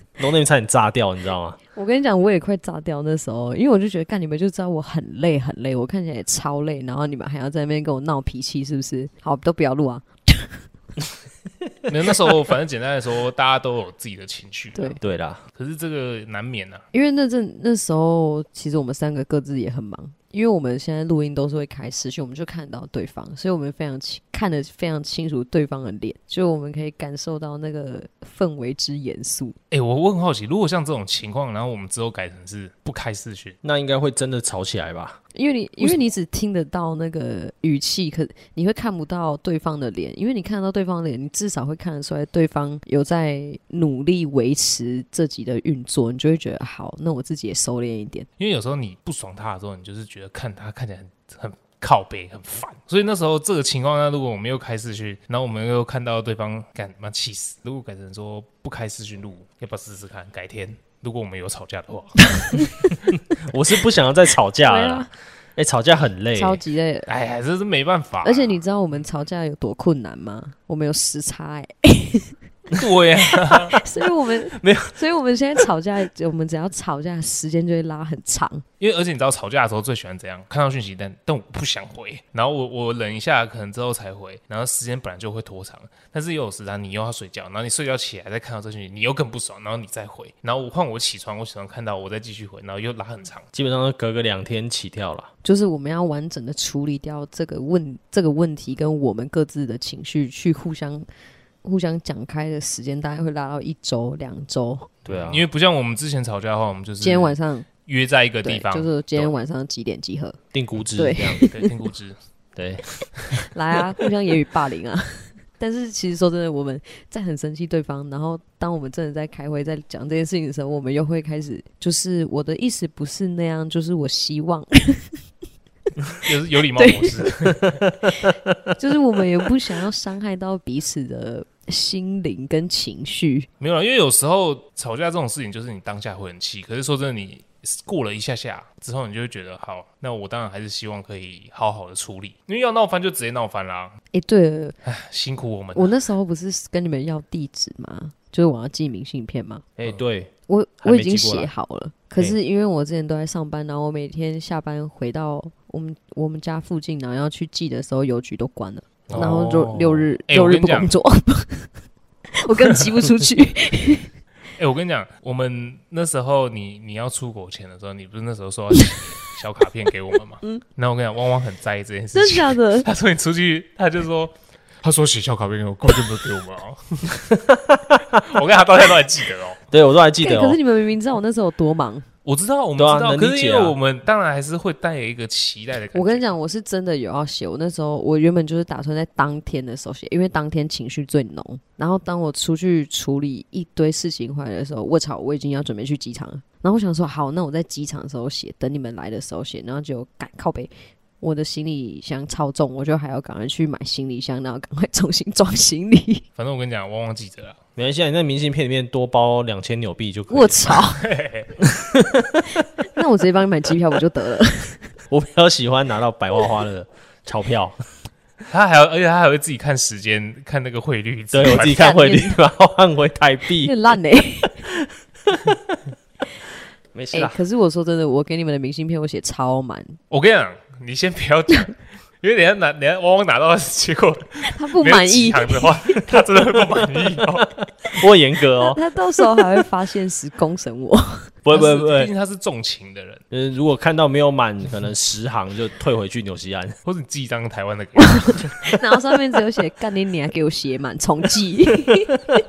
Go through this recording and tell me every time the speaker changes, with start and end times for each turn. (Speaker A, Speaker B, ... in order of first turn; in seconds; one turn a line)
Speaker A: 0.2-1.6
Speaker B: 1.8-10.6
Speaker C: 11.9-15.0
Speaker A: 15.0-15.4
Speaker C: 15.5-16.8
Speaker B: 16.9-29.6
Speaker C: 29.7-33.6
Speaker A: 33.6-35.2
Speaker B: 35.4-48.3
Speaker C: 48.4-62.9
Speaker A: 63.3-66.6
Speaker B: 64.6-65.1
Speaker B: 66.4-67.1
Speaker C: 67.1-68.6
Speaker B: 68.2-72.4
Speaker C: 72.7-73.8
Speaker B: 73.7-78.7
Speaker A: 74.6-74.9
Speaker C: 78.8-93.5
Speaker A: 93.5-95.3
Speaker B: 95.4-101.1
Speaker B: 101.6-104.9
Speaker A: 105.0-105.5
Speaker C: 105.1-109.3
Speaker B: 107.0-107.7
Speaker B: 108.4-110.4
Speaker A: 110.5-111.4
Speaker B: 111.0-111.7
Speaker C: 111.5-112.2
Speaker A: 112.6-113.1
Speaker B: 113.5-125.2
Speaker C: 126.2-127.8
Speaker B: 126.8-127.3
Speaker A: 128.0-128.7
Speaker B: 128.8-133.5
Speaker C: 133.6-144.0
Speaker B: 144.1-144.8
Speaker C: 144.8-145.9
Speaker B: 145.8-149.6
Speaker A: 149.8-151.5
Speaker B: 150.5-161.8
Speaker C: 159.1-159.5
Speaker A: 159.1-160.1
Speaker C: 160.3-160.9
Speaker B: 162.3-164.1
Speaker C: 164.6-177.3
Speaker B: 172.1-172.9
Speaker A: 177.5-178.2
Speaker C: 178.2-179.6
Speaker A: 179.7-180.6
Speaker B: 180.2-182.1
Speaker C: 182.2-186.3
Speaker A: 182.8-183.8
Speaker B: 185.9-206.2
Speaker C: 206.4-207.6
Speaker A: 207.8-210.9
Speaker B: 210.3-211.1
Speaker C: 211.0-211.5
Speaker A: 211.6-212.6
Speaker B: 212.8-214.9
Speaker A: 215.1-217.8
Speaker C: 218.5-221.8
Speaker A: 221.3-223.7
Speaker B: 221.5-222.4
Speaker B: 223.6-224.6
Speaker A: 224.4-225.8
Speaker A: 226.9-227.4
Speaker B: 227.1-230.0
Speaker C: 230.1-237.5
Speaker B: 234.5-235.8
Speaker A: 237.9-238.8
Speaker B: 238.6-241.3
Speaker A: 241.4-242.1
Speaker C: 241.5-243.2
Speaker A: 243.3-246.8
Speaker C: 246.8-248.6
Speaker B: 248.1-252.2